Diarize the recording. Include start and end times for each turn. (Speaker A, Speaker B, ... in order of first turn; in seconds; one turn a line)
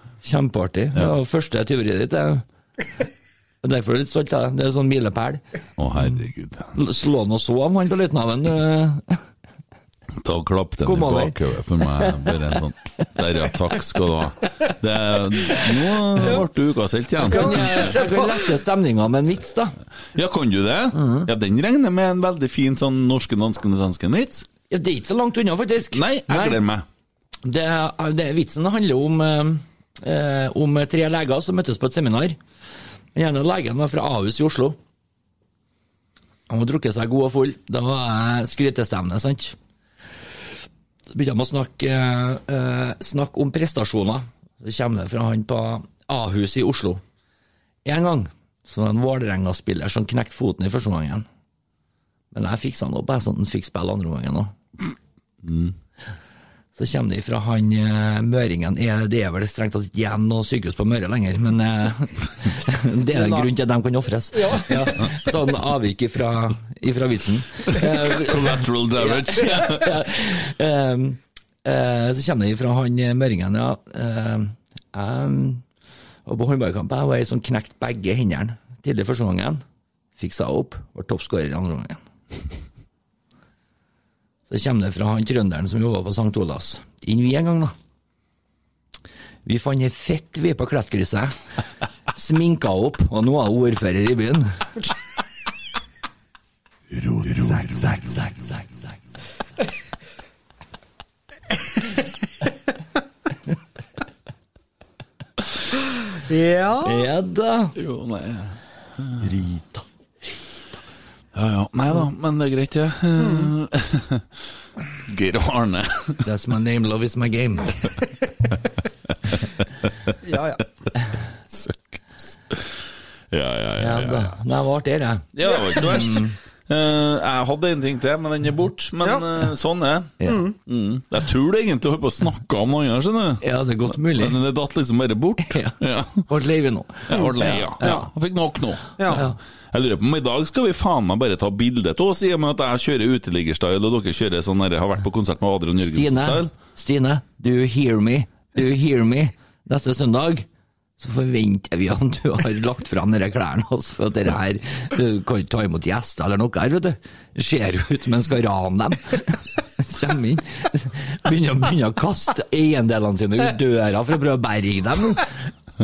Speaker A: 0.2-2.4
Speaker A: 3.6-5.4
Speaker B: 5.8-6.8
Speaker A: 6.7-9.2
Speaker B: 10.2-17.9
Speaker A: 10.8-11.3
Speaker A: 12.0-12.3
Speaker C: 17.2-18.5
Speaker A: 17.2-19.7
Speaker B: 20.1-24.5
Speaker A: 20.9-21.3
Speaker A: 24.7-26.6
Speaker B: 25.9-26.9
Speaker A: 27.4-32.4
Speaker A: 33.1-34.8
Speaker A: 36.5-39.5
Speaker A: 41.1-47.0
Speaker A: 47.8-51.2
Speaker A: 52.3-54.5
Speaker B: 55.4-55.7
Speaker A: 56.8-75.6
Speaker C: 63.1-63.5
Speaker C: 64.3-65.2
Speaker B: 67.7-70.0
Speaker A: 76.2-79.6
Speaker A: 80.2-82.0
Speaker A: 84.5-87.7
Speaker A: 89.4-91.4
Speaker A: 92.1-94.6
Speaker C: 106.1-107.1
Speaker A: 106.8-107.7
Speaker B: 107.8-109.3
Speaker A: 109.2-109.8
Speaker B: 111.3-114.2
Speaker C: 113.2-113.5
Speaker B: 115.0-116.2
Speaker A: 116.2-117.8
Speaker B: 119.3-120.1
Speaker C: 120.2-120.7
Speaker B: 121.5-122.7
Speaker B: 123.3-124.3
Speaker A: 123.8-126.3
Speaker B: 125.3-136.2
Speaker C: 129.0-129.3
Speaker C: 130.2-130.5
Speaker A: 133.4-134.4
Speaker A: 135.5-135.8
Speaker A: 136.3-138.1
Speaker B: 137.1-146.5
Speaker C: 137.1-138.0
Speaker C: 139.0-139.2
Speaker A: 139.1-139.4
Speaker A: 145.8-150.5
Speaker A: 151.0-165.4